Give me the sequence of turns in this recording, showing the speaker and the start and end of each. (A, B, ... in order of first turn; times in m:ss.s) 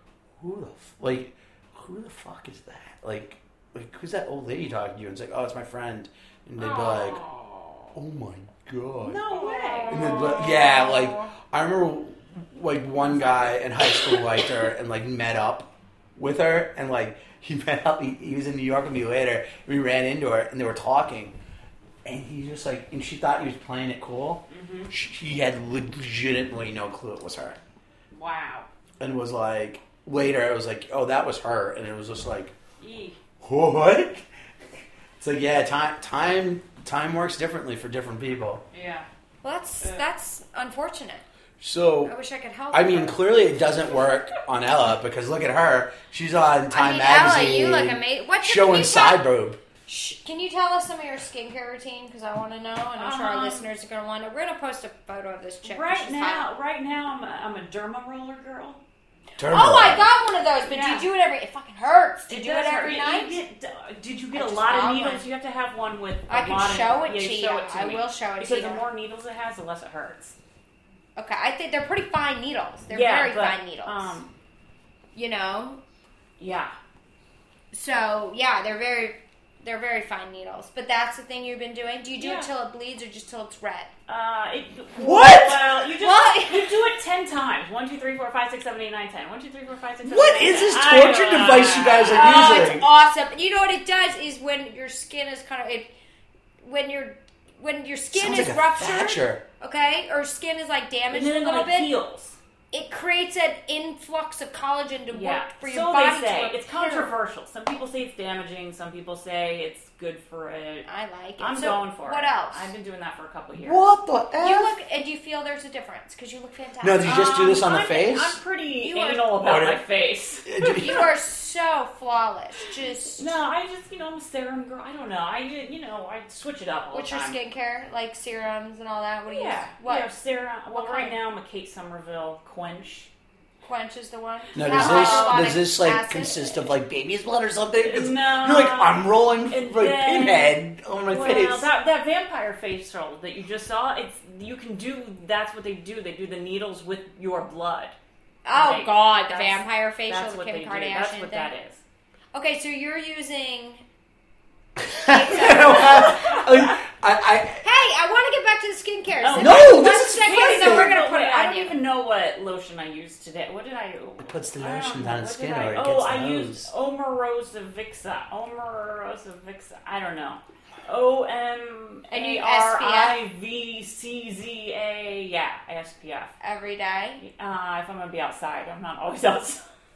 0:00.4-0:07.2 A
0:06.6-0:07.2 B
0:06.7-0:07.8 C
0:07.9-0:09.2 A
0:09.0-0:10.7 C
0:09.3-0:11.3 B
0:09.9-0:21.3 A
0:13.0-0:14.5 C
0:22.0-0:27.6 A
0:24.5-0:24.9 C
0:28.1-0:28.7 C
0:29.0-0:32.5 A
0:32.8-0:33.2 C
0:33.4-0:34.2 A
0:35.2-0:38.6 A
0:38.7-0:39.1 C
0:39.4-0:41.2 B
0:39.8-0:40.0 C
0:41.6-0:42.1 A
0:42.0-0:43.5 B
0:42.7-0:49.6 A
0:46.7-0:49.2 B
0:49.9-0:56.5 B
0:53.0-0:53.7 C
0:55.6-0:58.8 C
0:59.4-1:00.0 A
0:59.5-1:03.4 B
1:00.6-1:01.1 C
1:02.3-1:10.4 C
1:04.3-1:05.2 B
1:06.3-1:08.8 B
1:11.2-1:14.2 B
1:12.9-1:14.3 C
1:15.1-1:15.8 B
1:16.4-1:16.7 C
1:17.7-1:23.9 B
1:22.2-1:22.5 C
1:24.1-1:32.8 C
1:25.0-1:25.7 A
1:26.0-1:26.8 B
1:30.0-1:32.8 A
1:32.1-1:35.9 B
1:36.6-1:41.9 B
1:38.1-1:39.4 A
1:41.1-1:42.4 C
1:42.7-1:47.1 B
1:45.1-1:50.9 C
1:50.8-1:52.7 B
1:51.4-1:53.8 C
1:53.6-1:54.7 A
1:54.4-1:57.2 B
1:56.8-1:58.4 A
1:57.0-2:01.0 C
1:58.8-1:59.3 B
1:59.4-1:59.8 A
2:00.4-2:01.1 A
2:00.6-2:03.4 B
2:03.2-2:07.4 C
2:06.9-2:10.1 B
2:09.3-2:13.1 C
2:10.7-2:11.2 B
2:13.6-2:16.6 B
2:14.5-2:21.7 A
2:14.6-2:15.6 C
2:17.8-2:20.6 C
2:21.1-2:27.9 C
2:28.4-2:31.5 B
2:28.5-2:31.8 C
2:32.3-2:33.8 B
2:34.8-2:37.6 A
2:35.0-2:36.2 B
2:35.4-2:36.8 C
2:37.6-2:41.8 B
2:39.2-2:56.3 C
2:39.4-2:41.0 A
2:44.2-2:46.7 A
2:52.1-2:53.2 B
2:56.4-2:57.2 B
2:57.2-2:59.6 C